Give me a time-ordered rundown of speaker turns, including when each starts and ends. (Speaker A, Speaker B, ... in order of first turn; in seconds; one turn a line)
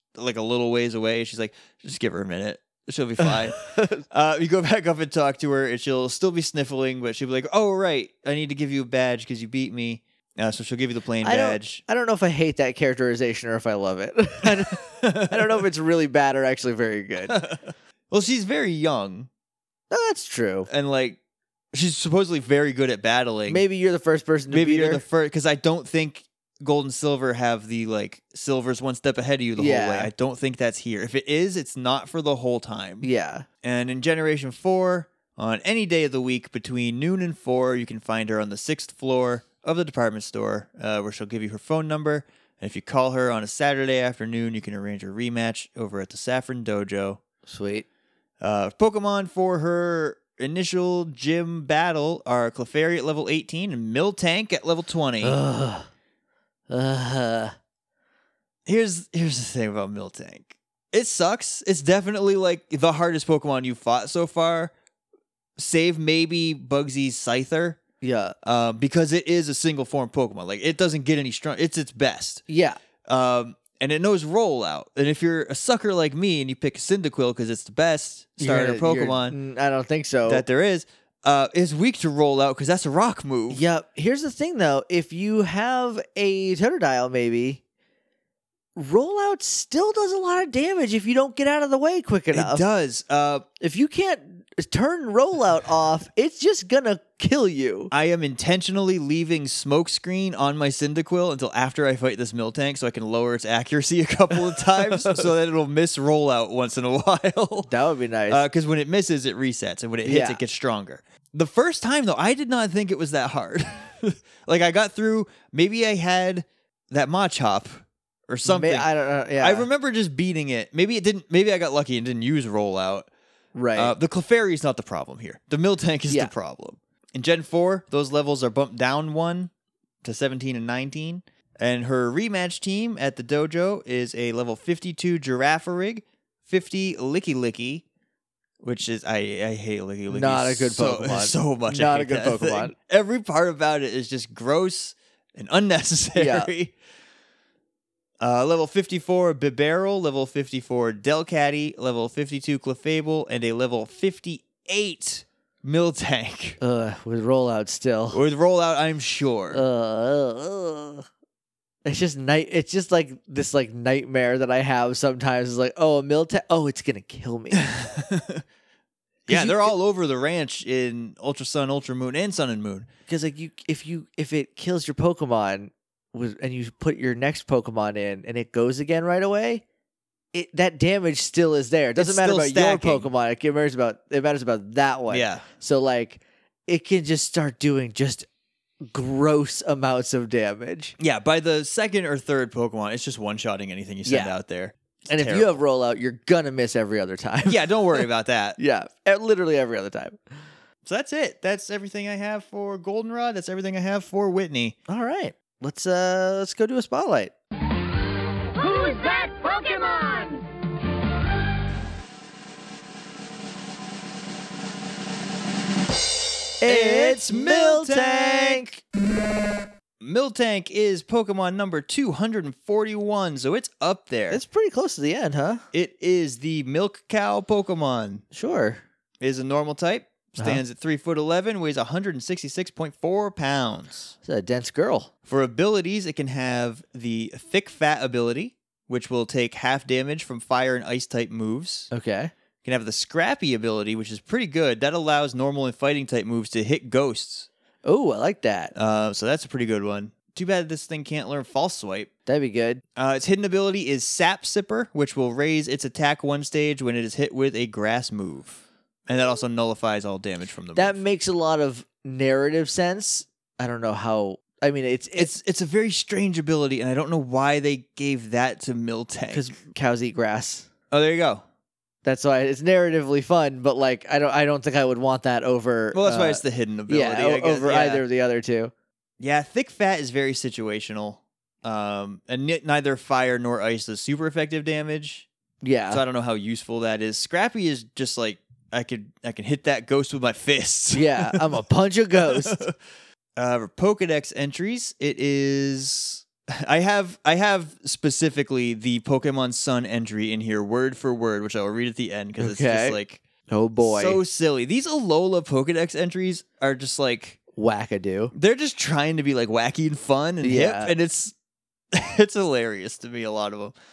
Speaker A: 0.1-11.8
Speaker B: 3.7-4.0
Speaker B: 11.2-17.5
Speaker A: 14.4-15.6
Speaker A: 17.3-17.6
Speaker A: 18.1-19.3
Speaker B: 19.9-20.7
Speaker A: 20.7-21.2
Speaker A: 21.7-23.6
Speaker B: 23.5-25.0
Speaker A: 24.5-33.1
Speaker B: 29.6-30.1
Speaker B: 33.0-33.5
Speaker A: 33.6-47.2
Speaker B: 47.5-47.9
Speaker A: 48.4-55.4
Speaker B: 55.2-55.9
Speaker B: 56.7-57.5
Speaker A: 58.6-64.7
Speaker A: 65.6-67.8
Speaker B: 68.0-68.3
Speaker A: 68.4-72.4
Speaker B: 72.5-72.8
Speaker A: 73.0-79.4
Speaker B: 78.4-80.4
Speaker A: 80.3-83.6
Speaker B: 83.5-87.6
Speaker B: 88.8-92.6
Speaker A: 92.3-93.5
Speaker B: 93.6-97.9
Speaker A: 97.9-107.7
Speaker B: 104.8-105.2
Speaker B: 107.7-108.4
Speaker A: 108.3-123.1
Speaker B: 110.0-110.4
Speaker B: 118.4-119.7
Speaker B: 123.5-123.9
Speaker A: 123.8-129.5
Speaker B: 126.1-126.3
Speaker A: 130.0-137.8
Speaker A: 138.6-146.7
Speaker B: 140.1-142.7
Speaker B: 146.1-146.5
Speaker A: 148.2-156.6
Speaker B: 156.6-158.2
Speaker A: 158.1-159.6
Speaker B: 159.5-161.1
Speaker B: 161.8-167.7
Speaker A: 167.6-168.4
Speaker A: 169.3-172.9
Speaker B: 169.3-169.7
Speaker B: 173.1-179.6
Speaker B: 180.3-188.3
Speaker A: 182.0-183.1
Speaker A: 185.1-185.4
Speaker B: 188.8-190.9
Speaker A: 191.0-195.6
Speaker B: 194.0-194.3
Speaker B: 195.1-198.0
Speaker A: 197.4-198.6
Speaker B: 198.6-200.2
Speaker A: 200.8-204.8
Speaker B: 204.9-207.3
Speaker C: 208.5-210.5
Speaker B: 216.6-218.8
Speaker A: 216.6-218.7
Speaker A: 220.0-224.4
Speaker B: 224.3-225.6
Speaker A: 225.7-228.2
Speaker B: 228.3-228.8
Speaker A: 229.2-234.1
Speaker B: 234.2-235.1
Speaker A: 235.2-241.9
Speaker B: 241.9-242.3
Speaker A: 242.6-247.5
Speaker B: 247.8-248.7
Speaker A: 248.7-252.1
Speaker B: 252.3-252.8
Speaker A: 252.9-261.0
Speaker B: 260.7-265.3
Speaker A: 265.1-269.6
Speaker B: 269.3-270.7
Speaker A: 270.9-271.4
Speaker B: 272.0-278.7
Speaker A: 275.9-278.0
Speaker A: 279.2-285.3
Speaker B: 285.6-286.0
Speaker A: 285.9-291.6
Speaker B: 290.9-292.6
Speaker A: 292.2-292.7
Speaker A: 293.4-303.2
Speaker B: 302.4-304.2
Speaker A: 303.8-307.4
Speaker B: 307.5-308.3
Speaker A: 308.3-311.3
Speaker B: 310.4-310.9
Speaker A: 311.9-313.7